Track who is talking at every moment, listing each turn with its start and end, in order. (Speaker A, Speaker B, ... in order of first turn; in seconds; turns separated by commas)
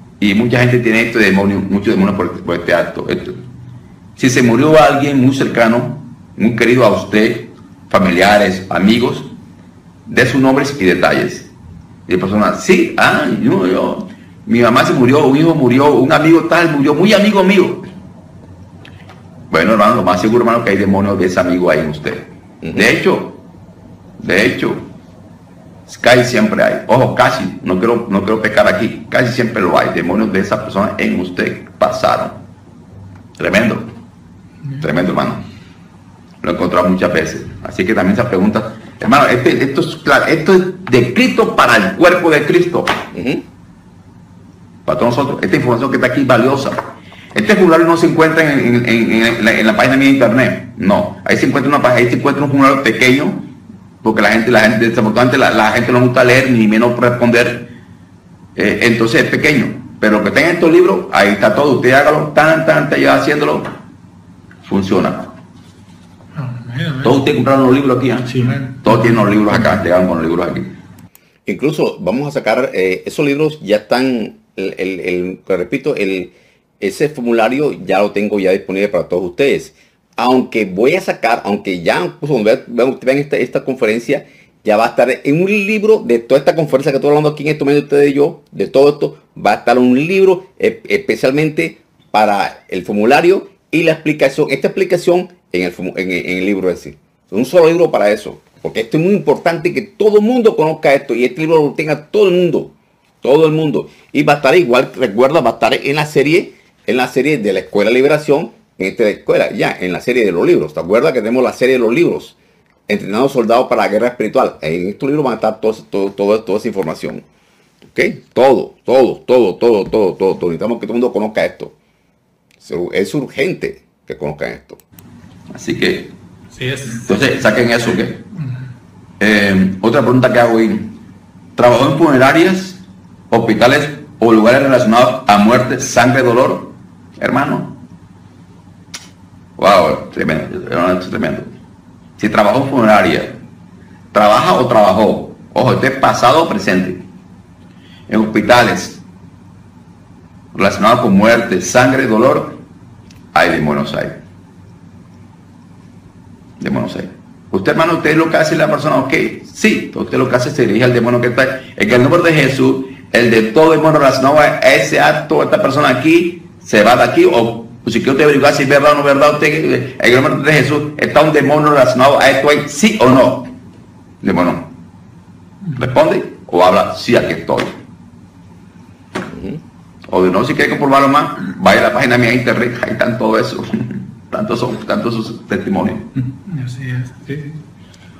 Speaker A: 0.2-3.4, Speaker A: 4.2-9.3, Speaker A: 10.1-11.5, Speaker A: 12.1-17.8, Speaker A: 19.5-23.4, Speaker A: 24.2-24.8, Speaker A: 25.9-32.4, Speaker A: 33.4-33.9, Speaker A: 34.8-35.4, Speaker A: 36.4-43.0, Speaker B: 43.1-43.4, Speaker A: 44.9-46.8, Speaker A: 47.3-53.5, Speaker A: 54.0-57.7, Speaker A: 58.6-63.7, Speaker A: 64.7-65.3, Speaker C: 66.3-67.2, Speaker A: 67.0-70.7, Speaker C: 68.3-69.1, Speaker B: 71.5-112.4, Speaker B: 112.9-117.2, Speaker B: 117.9-121.7, Speaker B: 122.6-124.8, Speaker A: 125.5-126.1, Speaker C: 126.5-127.1, Speaker A: 127.0-128.2, Speaker A: 129.2-130.9, Speaker A: 131.6-137.8, Speaker A: 139.6-141.5, Speaker A: 142.2-143.4, Speaker A: 144.1-147.0, Speaker A: 148.1-149.0, Speaker A: 150.6-152.6, Speaker A: 153.3-154.2, Speaker A: 156.6-173.5, Speaker A: 174.2-174.7, Speaker A: 175.8-177.8, Speaker B: 179.3-179.6, Speaker A: 180.1-186.1, Speaker C: 186.2-187.6